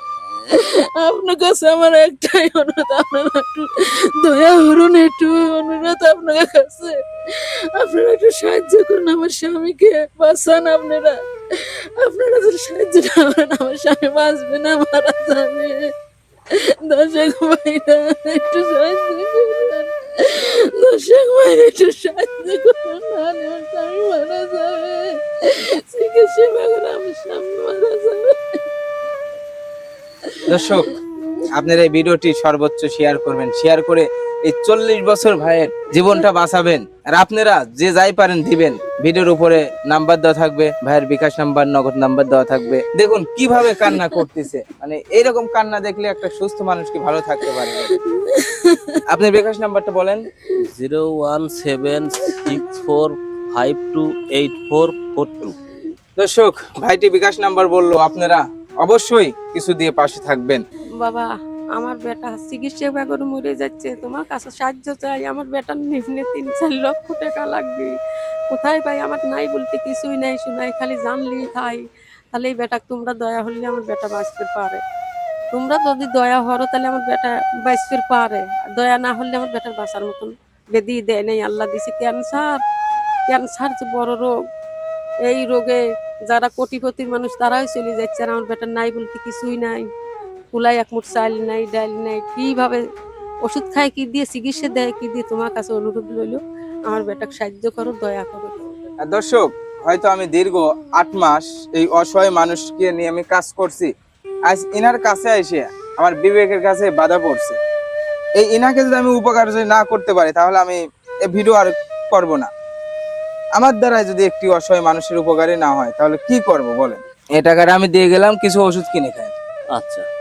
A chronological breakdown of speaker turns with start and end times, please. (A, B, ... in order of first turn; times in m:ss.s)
0:00.4-0:15.9 A
0:16.5-0:28.6 A
0:30.5-0:30.9 B
0:31.5-0:47.9 B
0:48.2-0:48.8 A
0:49.1-0:50.2 B
0:50.6-0:55.5 C
0:56.2-1:00.6 B
1:01.0-1:07.9 D
1:08.5-1:11.8 D
1:12.3-1:14.8 D
1:15.5-1:22.6 D
1:23.3-1:24.3 D
1:25.3-1:29.8 D
1:30.5-1:32.8 D
1:33.4-1:38.7 D
1:39.0-1:43.9 B
1:44.5-1:47.6 B
1:48.4-1:52.5 B
1:53.6-1:59.3 B
1:59.7-2:00.0 C